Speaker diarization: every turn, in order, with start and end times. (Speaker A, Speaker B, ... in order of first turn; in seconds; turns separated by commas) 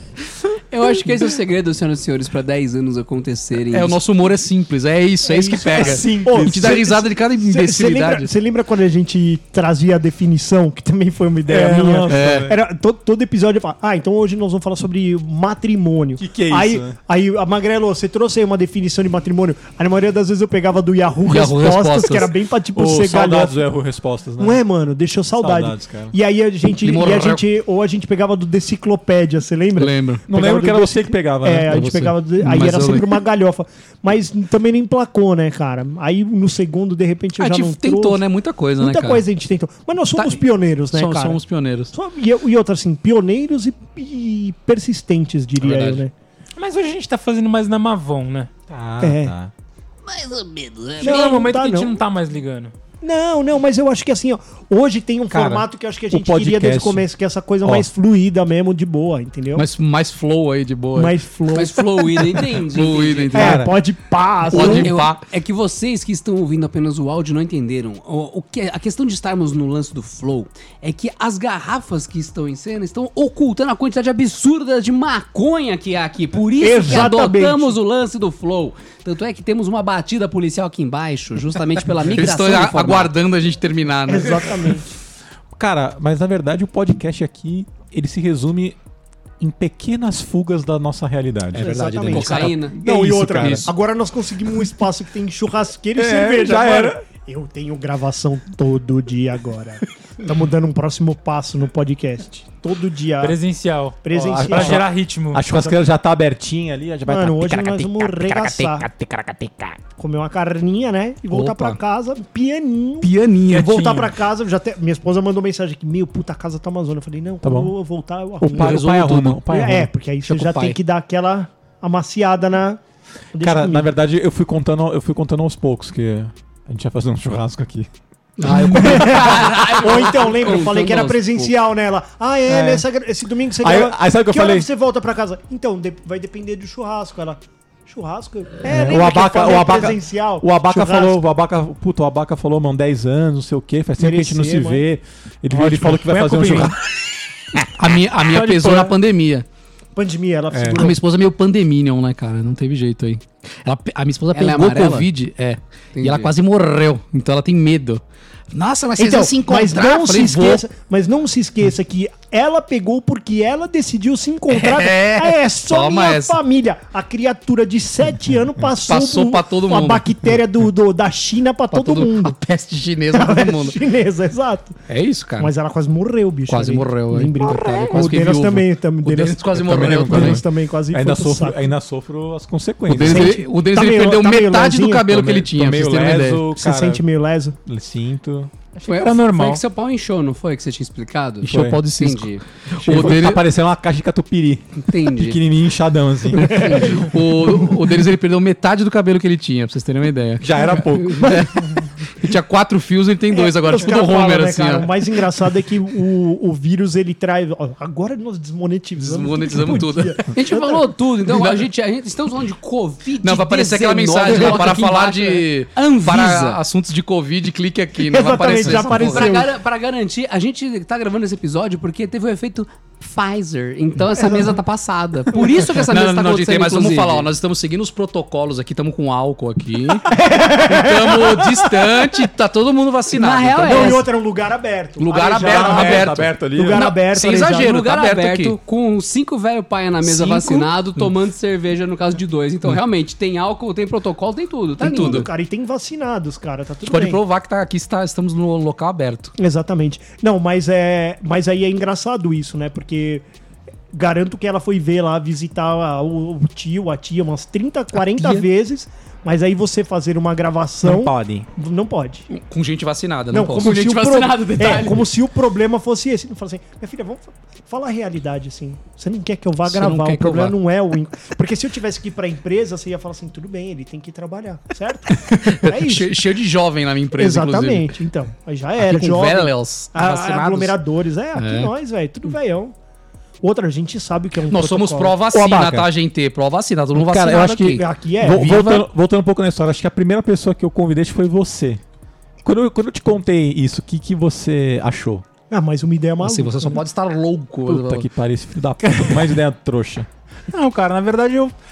Speaker A: 0.7-4.0, Speaker B: 3.7-8.3, Speaker C: 5.2-23.6, Speaker D: 5.7-6.8, Speaker D: 11.4-12.6, Speaker B: 12.1-12.5, Speaker D: 16.2-17.0, Speaker B: 21.2-22.3, Speaker D: 22.7-24.6, Speaker C: 24.4-38.2, Speaker D: 25.4-26.1, Speaker B: 26.8-27.4, Speaker B: 29.8-30.2, Speaker D: 30.3-32.0, Speaker B: 31.7-33.2, Speaker B: 37.4-39.2, Speaker C: 38.8-46.1, Speaker B: 40.1-41.9, Speaker B: 45.6-46.0, Speaker E: 46.5-48.5, Speaker D: 48.7-49.5, Speaker C: 49.0-49.3, Speaker A: 50.0-51.3, Speaker C: 51.0-52.0, Speaker E: 51.0-52.7, Speaker C: 53.0-59.6, Speaker D: 55.3-57.0, Speaker D: 57.6-57.9, Speaker B: 59.5-61.1, Speaker C: 60.9-62.5, Speaker A: 61.5-63.6, Speaker B: 62.7-63.6, Speaker D: 63.3-63.7, Speaker C: 63.3-64.9, Speaker B: 64.5-65.2, Speaker A: 64.5-83.1, Speaker C: 76.6-77.8, Speaker B: 82.1-84.6, Speaker C: 84.0-84.9, Speaker D: 85.5-88.8, Speaker D: 89.4-93.7, Speaker B: 91.5-92.7, Speaker C: 91.5-103.4, Speaker A: 92.0-92.7, Speaker B: 93.3-93.7, Speaker D: 95.9-97.0, Speaker E: 103.2-105.4, Speaker C: 104.0-104.9, Speaker D: 104.1-108.0, Speaker C: 105.5-105.8, Speaker C: 107.1-108.9, Speaker B: 108.0-109.8, Speaker C: 109.9-122.8, Speaker B: 111.3-111.8, Speaker B: 113.0-113.6, Speaker E: 113.4-114.1, Speaker D: 117.4-117.7, Speaker D: 118.4-119.9, Speaker B: 118.5-119.4, Speaker B: 120.2-120.8, Speaker C: 123.3-123.9, Speaker D: 123.4-127.9, Speaker B: 128.4-129.2, Speaker D: 128.4-129.4, Speaker A: 128.4-131.5, Speaker C: 128.5-141.2, Speaker D: 132.4-132.8, Speaker D: 133.6-134.7, Speaker D: 138.6-146.8, Speaker C: 144.0-144.8, Speaker E: 145.5-146.7, Speaker B: 147.6-149.4, Speaker E: 148.2-148.9, Speaker C: 149.9-151.0, Speaker D: 150.5-150.9, Speaker B: 150.7-160.6, Speaker A: 154.3-155.1, Speaker A: 155.9-156.3, Speaker C: 159.0-172.4, Speaker B: 164.5-166.4, Speaker B: 168.8-170.2, Speaker B: 171.7-173.8, Speaker C: 173.1-174.8, Speaker B: 174.9-175.5, Speaker C: 175.4-181.7, Speaker B: 176.5-180.4, Speaker D: 179.5-183.4, Speaker B: 182.9-186.4, Speaker C: 183.0-185.2, Speaker D: 185.1-187.0, Speaker C: 186.5-187.6, Speaker D: 187.7-188.5, Speaker E: 188.8-189.6, Speaker A: 188.8-192.4, Speaker D: 191.4-191.8, Speaker B: 191.5-193.4, Speaker D: 192.8-196.8, Speaker A: 194.9-195.4, Speaker B: 196.4-204.9, Speaker C: 196.5-197.1, Speaker D: 200.4-201.6, Speaker C: 203.3-210.8, Speaker B: 209.0-210.3, Speaker A: 210.3-216.6, Speaker B: 211.2-211.7, Speaker B: 213.2-219.4, Speaker C: 214.3-214.6, Speaker C: 218.0-219.5, Speaker A: 218.5-227.3, Speaker C: 224.1-224.6, Speaker C: 225.3-225.6, Speaker B: 225.8-234.1, Speaker C: 230.1-232.2, Speaker A: 233.1-234.1, Speaker C: 233.6-237.7, Speaker B: 235.0-238.6, Speaker D: 235.3-236.8, Speaker A: 237.2-245.3, Speaker B: 240.1-240.6, Speaker C: 244.8-247.2, Speaker B: 244.8-245.3, Speaker B: 246.8-249.3, Speaker C: 249.4-253.2, Speaker C: 253.9-262.3, Speaker B: 258.1-258.4, Speaker D: 260.8-261.5, Speaker B: 262.3-264.0, Speaker C: 263.3-276.2, Speaker A: 263.6-265.1, Speaker B: 269.6-270.6, Speaker B: 275.2-277.9, Speaker C: 277.1-282.7, Speaker B: 278.8-280.8, Speaker B: 281.4-281.7, Speaker C: 283.4-285.8, Speaker B: 284.5-288.8, Speaker D: 286.9-291.8, Speaker C: 287.7-288.6, Speaker D: 292.4-295.2, Speaker C: 295.5-296.8, Speaker B: 296.2-298.1, Speaker D: 297.7-300.1, Speaker E: 298.8-299.2, Speaker E: 300.5-301.5